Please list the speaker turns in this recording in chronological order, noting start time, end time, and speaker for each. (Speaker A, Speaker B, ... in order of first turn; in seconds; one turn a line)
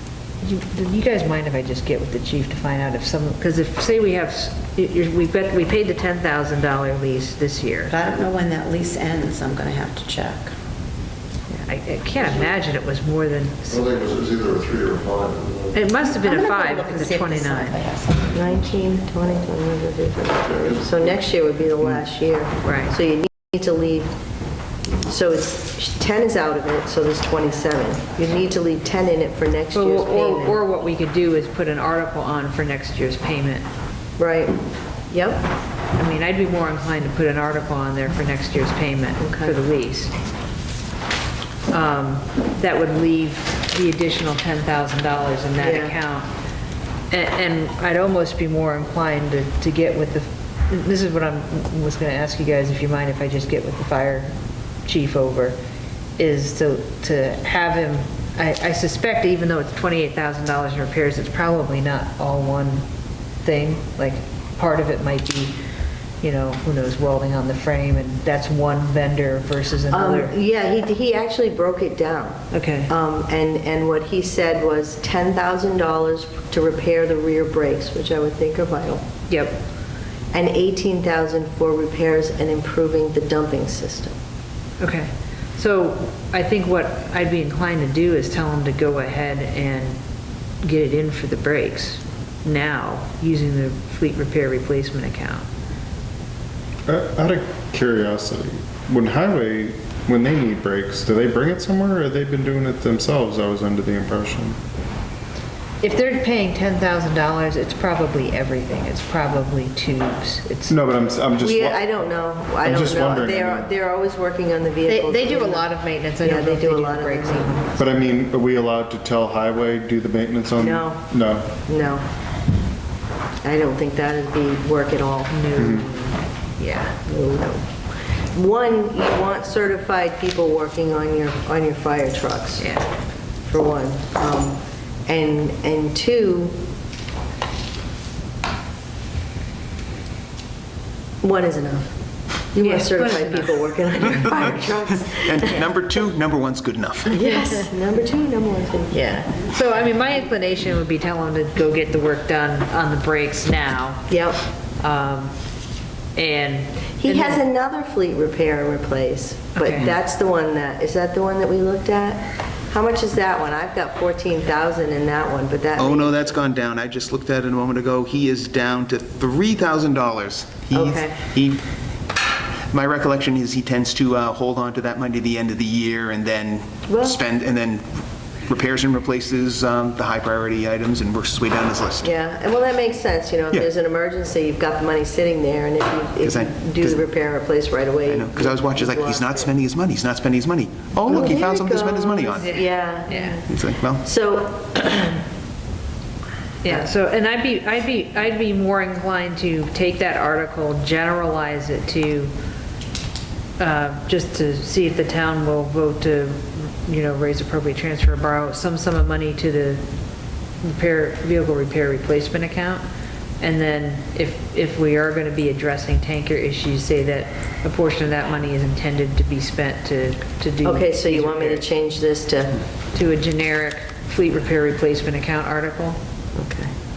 Speaker A: 0.4-7.9
Speaker B: 8.0-10.5
Speaker A: 11.5-14.0
Speaker C: 13.7-15.7
Speaker A: 15.7-17.8
Speaker B: 16.2-18.3
Speaker D: 18.3-24.1
Speaker A: 22.6-23.0
Speaker D: 25.1-30.6
Speaker A: 29.7-33.6
Speaker D: 34.2-34.6
Speaker D: 35.1-35.5
Speaker A: 35.9-40.1
Speaker D: 39.2-39.5
Speaker A: 41.7-46.3
Speaker D: 45.6-45.9
Speaker A: 47.1-54.3
Speaker A: 54.8-55.6
Speaker A: 56.2-62.8
Speaker A: 63.4-65.5
Speaker A: 66.2-70.3
Speaker D: 69.9-79.0
Speaker A: 72.5-72.9
Speaker A: 79.3-79.6
Speaker D: 80.3-84.1
Speaker A: 84.8-90.0
Speaker A: 90.6-95.5
Speaker E: 96.9-104.6
Speaker A: 105.8-110.8
Speaker E: 110.7-111.8
Speaker D: 111.4-117.7
Speaker E: 112.6-113.7
Speaker A: 114.8-117.7
Speaker E: 117.8-121.5
Speaker D: 120.6-122.0
Speaker D: 123.4-125.3
Speaker A: 125.3-127.0
Speaker E: 125.5-125.9
Speaker D: 127.0-127.6
Speaker D: 128.1-132.7
Speaker A: 132.6-132.8
Speaker D: 133.5-136.5
Speaker D: 141.2-141.9
Speaker D: 142.5-145.6
Speaker A: 142.6-143.7
Speaker F: 145.1-147.2
Speaker D: 147.1-148.9
Speaker A: 147.2-147.6
Speaker A: 148.9-154.1
Speaker D: 154.1-154.4
Speaker A: 154.8-155.3
Speaker A: 156.2-157.4
Speaker D: 157.0-166.4
Speaker A: 159.6-159.9
Speaker F: 165.8-171.6
Speaker D: 170.7-171.2
Speaker F: 172.7-177.8
Speaker D: 176.9-177.2
Speaker F: 178.5-182.1
Speaker D: 182.0-189.5
Speaker F: 186.2-187.1
Speaker F: 188.0-192.6
Speaker D: 191.0-195.2
Speaker A: 192.4-193.4
Speaker F: 193.5-194.0
Speaker A: 196.6-202.3
Speaker A: 203.6-209.8
Speaker A: 210.6-212.8
Speaker A: 213.4-221.7
Speaker D: 220.6-222.6
Speaker A: 222.9-226.0
Speaker D: 226.3-226.7